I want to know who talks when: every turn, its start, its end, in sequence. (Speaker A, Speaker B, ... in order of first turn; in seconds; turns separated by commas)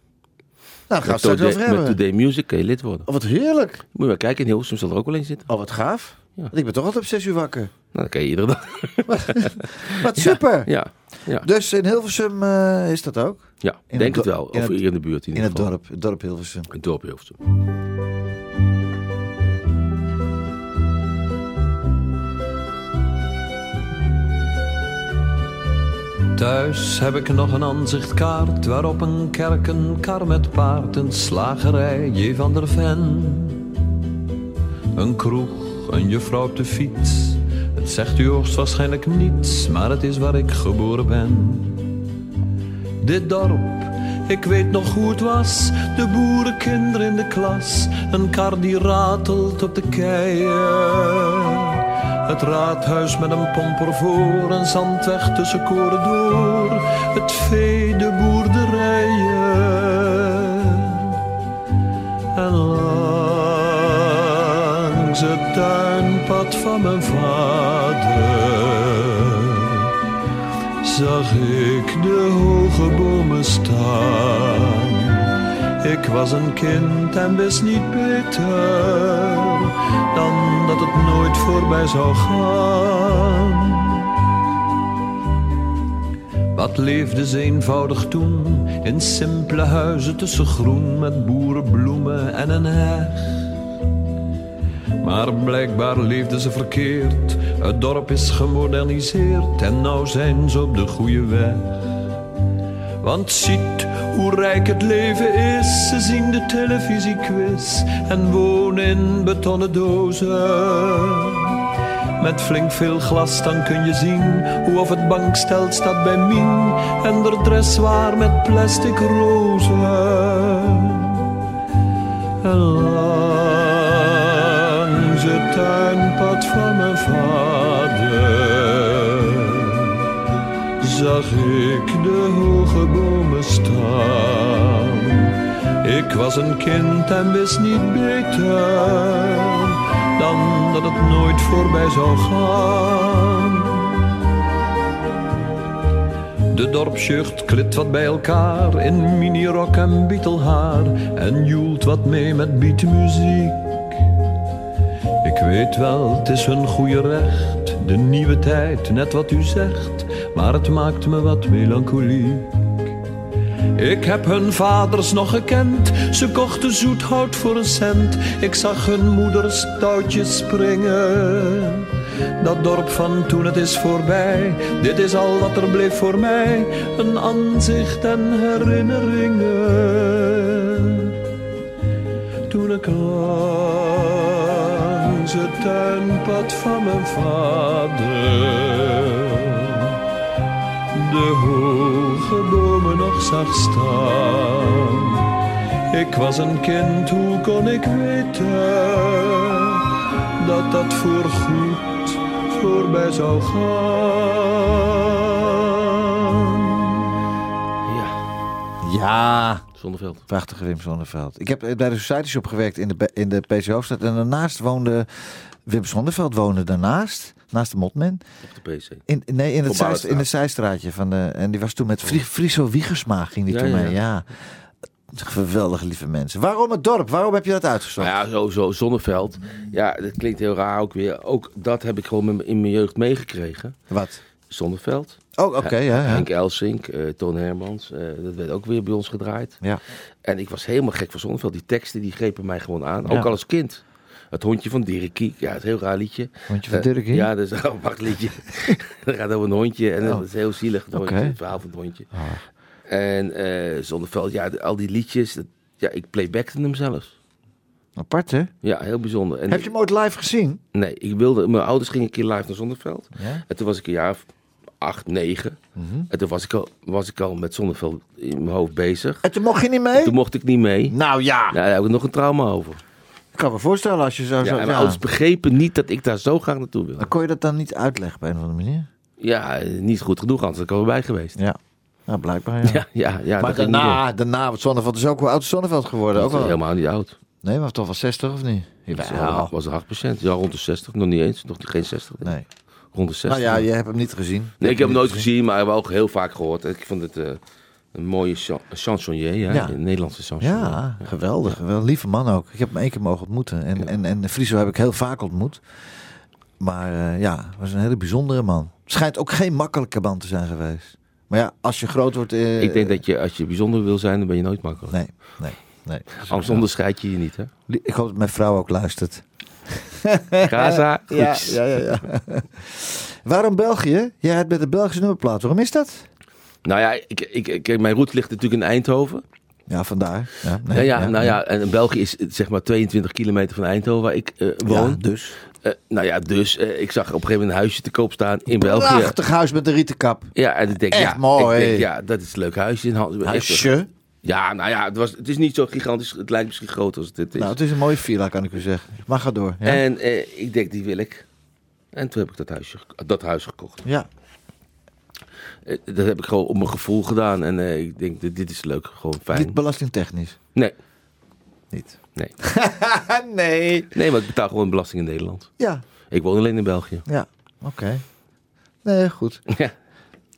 Speaker A: 0.9-2.0, Speaker B: 1.0-3.1, Speaker A: 3.0-3.8, Speaker B: 3.9-5.5, Speaker A: 5.5-7.7, Speaker B: 7.9-11.4, Speaker A: 9.1-10.7, Speaker A: 11.4-16.7, Speaker B: 13.6-15.7, Speaker B: 16.7-17.4, Speaker C: 26.3-33.7, Speaker C: 34.9-42.0, Speaker C: 43.0-61.2, Speaker C: 62.3-69.9, Speaker C: 70.8-84.0, Speaker C: 86.5-93.4, Speaker C: 95.0-101.9, Speaker C: 103.0-111.6, Speaker C: 112.2-121.3, Speaker C: 122.4-130.0, Speaker C: 130.8-144.0, Speaker C: 146.5-154.0, Speaker C: 155.2-162.9, Speaker C: 163.8-181.2, Speaker C: 182.5-190.0, Speaker C: 190.9-195.3, Speaker C: 195.9-199.8, Speaker C: 200.4-206.9, Speaker B: 207.8-208.2, Speaker A: 208.8-209.6, Speaker B: 209.8-210.2, Speaker A: 210.3-215.1, Speaker A: 215.7-218.2, Speaker B: 218.4-219.0, Speaker A: 219.1-224.2, Speaker B: 219.7-220.2, Speaker B: 223.5-224.0, Speaker A: 225.1-228.1, Speaker B: 228.0-233.8, Speaker A: 233.9-234.2, Speaker B: 234.5-239.6, Speaker A: 235.3-236.3, Speaker B: 240.2-252.1, Speaker A: 243.1-243.3, Speaker A: 246.5-247.3, Speaker A: 250.9-251.4, Speaker A: 252.1-252.4, Speaker B: 252.9-257.1, Speaker A: 258.0-258.5, Speaker B: 258.6-259.7, Speaker A: 259.5-260.6, Speaker B: 260.7-264.3, Speaker A: 263.1-263.4, Speaker B: 264.8-265.6, Speaker A: 265.8-266.1, Speaker B: 266.1-269.2, Speaker A: 269.2-270.1, Speaker B: 269.9-270.9, Speaker A: 270.9-271.6, Speaker B: 271.5-272.8, Speaker A: 273.3-275.0, Speaker B: 274.4-277.1, Speaker A: 277.0-278.9, Speaker B: 279.2-281.4, Speaker A: 281.4-282.8, Speaker B: 282.6-284.0, Speaker A: 283.4-286.6, Speaker B: 286.1-287.2, Speaker A: 287.4-289.5, Speaker B: 288.9-292.3, Speaker B: 292.9-293.6, Speaker A: 293.3-295.2, Speaker B: 294.6-297.4, Speaker B: 297.9-301.5, Speaker A: 299.5-299.8, Speaker A: 300.4-305.6, Speaker A: 306.6-313.0, Speaker B: 312.6-315.0, Speaker A: 314.9-316.6, Speaker B: 316.2-317.5, Speaker A: 317.7-326.1, Speaker B: 320.4-321.6, Speaker B: 326.6-329.2, Speaker A: 329.7-331.4, Speaker B: 330.7-335.0, Speaker A: 334.6-335.4, Speaker B: 335.6-339.1, Speaker A: 338.5-340.3, Speaker B: 340.3-343.7, Speaker A: 340.9-341.9, Speaker A: 343.2-343.9, Speaker B: 344.2-347.6, Speaker A: 347.4-349.8, Speaker B: 349.6-351.2, Speaker B: 351.9-353.8, Speaker B: 355.6-359.6, Speaker A: 359.3-360.4, Speaker A: 361.7-363.9, Speaker B: 363.9-365.5, Speaker B: 366.1-367.1, Speaker A: 367.1-368.0, Speaker A: 368.8-369.4